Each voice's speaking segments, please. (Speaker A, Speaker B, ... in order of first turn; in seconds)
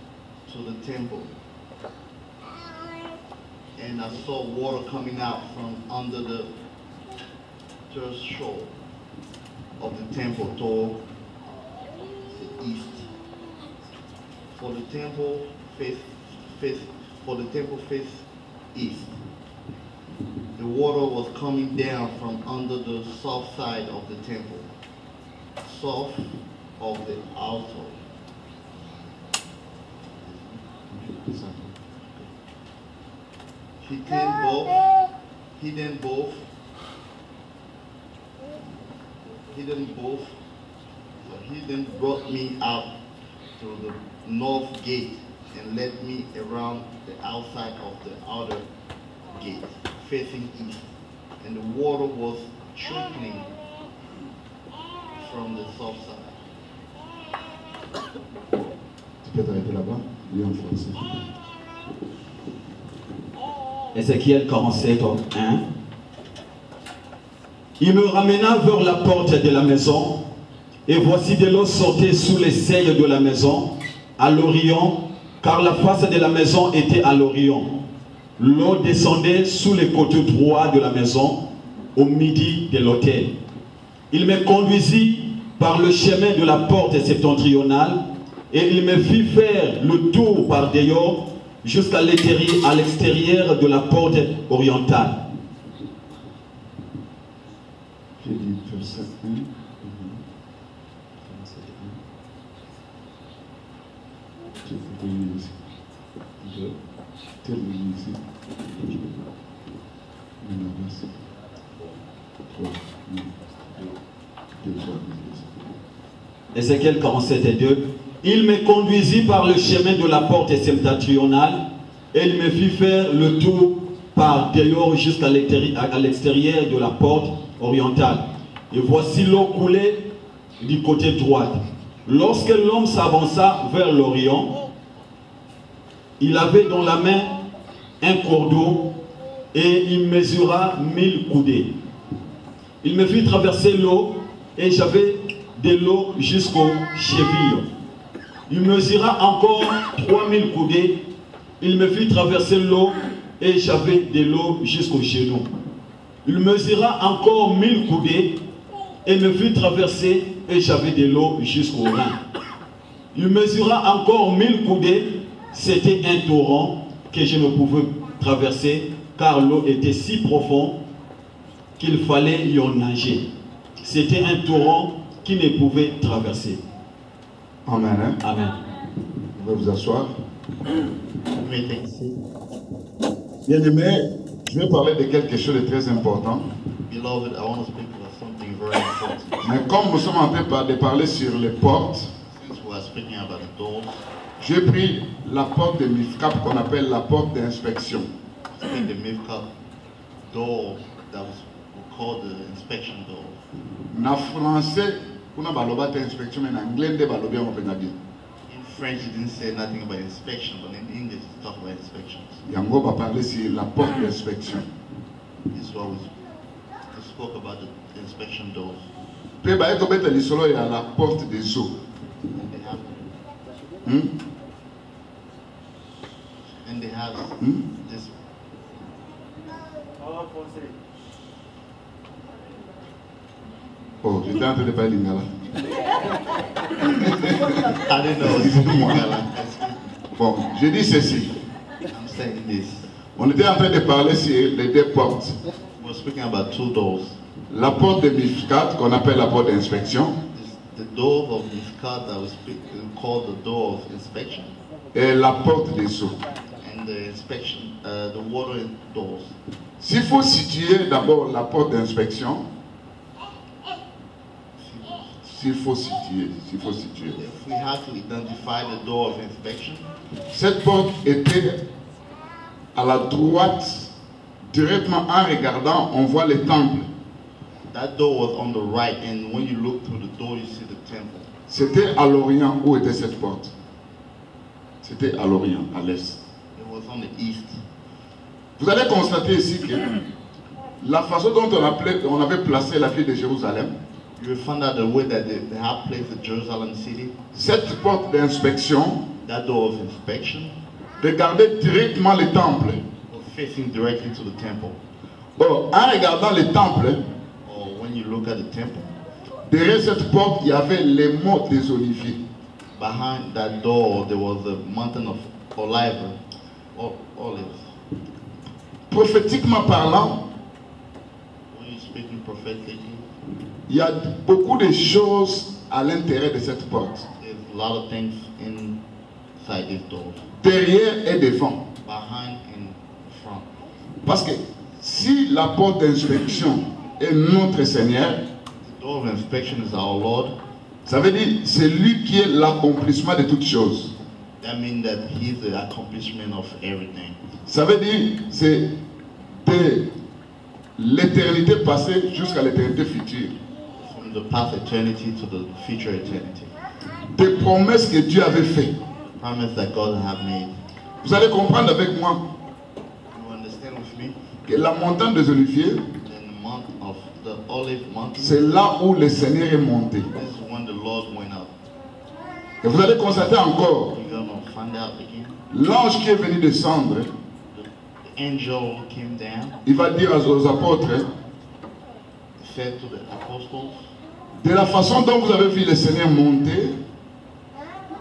Speaker A: 0.5-1.3, 3.8-6.5, 7.9-8.7, 9.8-11.0, 12.3-13.1, 14.5-19.1, 20.6-24.7, 25.6-28.0, 30.0-30.6, 33.8-34.9, 35.6-36.5, 39.5-40.4, 41.2-42.9, 43.6-48.6, 49.3-50.9, 51.4-53.5, 55.2-56.4, 181.4-182.2, 186.8-189.6, 192.3-194.1, 198.5-199.5, 200.2-203.4, 208.5-212.4, 215.5-216.1, 216.9-218.9, 222.3-223.1, 226.6-228.1, 237.7-239.9, 241.9-242.9, 245.8-247.2, 250.3-254.5, 256.6-259.4, 264.6-265.2, 267.1-269.9, 277.7-281.3, 286.5-287.6, 294.2-297.2, 299.2-300.6, 303.1-304.8, 307.4-308.9, 312.8-316.2, 316.7-317.7, 321.5-323.1, 327.2-328.8, 329.4-330.2, 331.8-333.5, 338.6-340.3, 344.4-347.3, 353.8-356.5, 359.1-360.6, 363.1-364.2, 365.9-368.5, 370.1-371.5, 373.9-375.4, 377.5-379.6, 382.4-383.9
Speaker B: 30.9-31.8, 59.2-61.3, 98.2-100.2, 101.2-102.0, 104.6-105.6, 106.4-106.8, 107.4-109.1, 110.4-111.1, 112.5-114.0, 114.6-115.5, 177.7-178.2, 179.3-180.1, 183.4-186.5, 189.4-192.1, 194.4-198.1, 203.9-207.9, 212.4-214.7, 219.4-221.7, 223.8-224.1, 234.0-235.4, 236.8-237.6, 238.2-239.1, 240.2-241.3, 243.2-245.4, 247.5-250.2, 254.9-256.2, 259.8-262.5, 265.2-267.2, 270.3-271.6, 272.7-273.9, 274.5-276.9, 281.5-283.5, 284.8-286.2, 288.6-289.9, 290.8-293.7, 297.3-299.0, 301.0-302.8, 305.4-307.0, 309.5-312.2, 318.9-320.2, 323.7-327.1, 330.4-331.6, 334.0-338.2, 340.8-343.9, 347.4-348.8, 349.4-349.9, 350.8-353.3, 357.1-358.7, 361.0-362.2, 364.4-365.9, 368.2-370.1, 372.6-373.9, 375.5-377.1, 379.6-381.1, 384.4-386.8
Speaker C: 63.9-65.6, 67.8-70.2, 70.9-77.8, 78.4-83.3, 84.1-95.2, 116.5-134.5, 136.2-137.3, 138.0-138.9, 139.5-141.7, 142.8-147.7, 148.5-151.0, 151.6-155.5, 156.2-158.4, 159.0-162.2, 163.1-170.8, 171.8-173.3, 173.8-176.6, 178.2-178.6